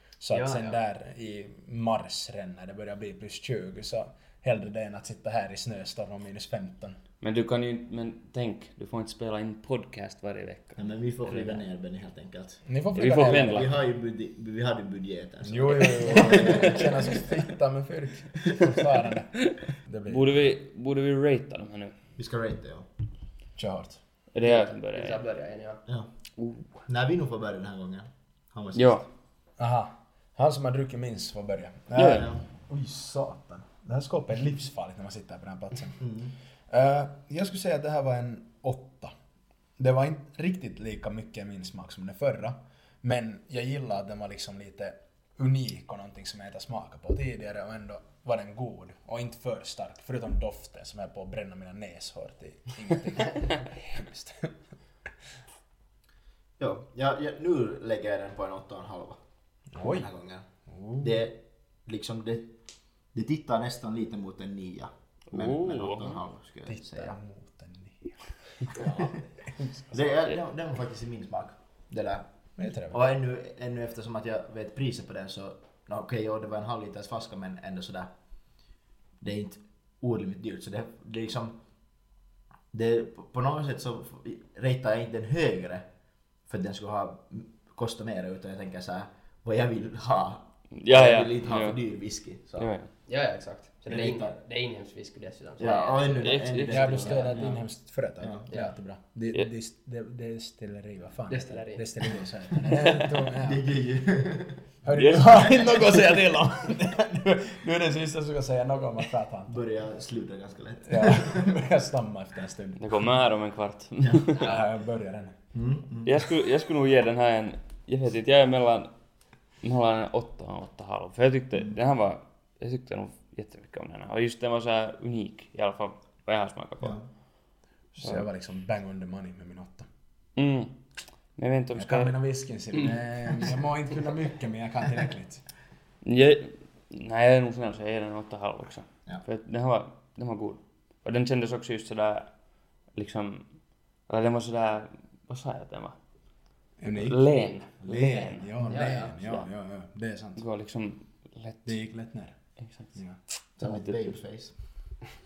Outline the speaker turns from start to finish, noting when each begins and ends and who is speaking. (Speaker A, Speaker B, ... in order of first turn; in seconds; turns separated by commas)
Speaker A: 0.2-7.0, Speaker B: 0.3-0.8, Speaker C: 7.2-11.6, Speaker D: 10.8-12.6, Speaker A: 12.6-13.7, Speaker C: 12.9-13.7, Speaker D: 13.2-17.3, Speaker A: 15.4-20.5, Speaker C: 20.1-21.9, Speaker D: 22.2-22.9, Speaker A: 23.6-24.0, Speaker C: 24.3-25.2, Speaker B: 24.4-25.8, Speaker C: 26.4-26.7, Speaker D: 26.9-29.1, Speaker C: 28.8-29.0, Speaker A: 29.6-36.0, Speaker C: 31.9-32.3, Speaker D: 32.0-32.4, Speaker D: 36.0-36.3, Speaker A: 36.7-39.1, Speaker A: 39.8-54.5, Speaker D: 56.6-59.2, Speaker A: 59.7-60.1, Speaker D: 59.8-60.5, Speaker A: 60.7-61.2, Speaker D: 61.0-62.6, Speaker D: 63.1-67.2, Speaker C: 65.3-66.2, Speaker A: 66.7-69.6, Speaker D: 68.8-69.2, Speaker D: 69.9-72.3, Speaker A: 72.6-73.0, Speaker D: 72.9-78.1, Speaker D: 79.2-81.6, Speaker D: 82.7-85.9, Speaker D: 86.5-92.7, Speaker C: 90.8-91.8, Speaker C: 92.6-92.9, Speaker B: 93.1-96.4, Speaker D: 93.9-94.4, Speaker D: 95.6-97.6, Speaker C: 96.2-97.5, Speaker A: 96.7-103.6, Speaker D: 98.2-98.5, Speaker B: 101.3-101.9, Speaker D: 102.8-104.6, Speaker A: 104.8-109.6, Speaker C: 105.0-105.9, Speaker D: 109.5-111.5, Speaker A: 110.9-112.8, Speaker C: 112.8-114.5, Speaker D: 114.0-114.3, Speaker A: 114.4-115.4, Speaker D: 115.5-116.3, Speaker C: 116.0-118.9, Speaker C: 119.6-127.0, Speaker A: 128.0-129.9, Speaker C: 130.4-130.8, Speaker C: 131.4-132.1, Speaker A: 131.7-135.4, Speaker C: 136.0-142.3, Speaker C: 142.9-145.9, Speaker A: 146.8-150.4, Speaker C: 146.9-148.4, Speaker B: 148.6-149.4, Speaker C: 150.4-151.7, Speaker A: 151.7-152.4, Speaker C: 152.6-152.9, Speaker A: 152.9-153.2, Speaker C: 153.6-154.1, Speaker D: 153.6-154.5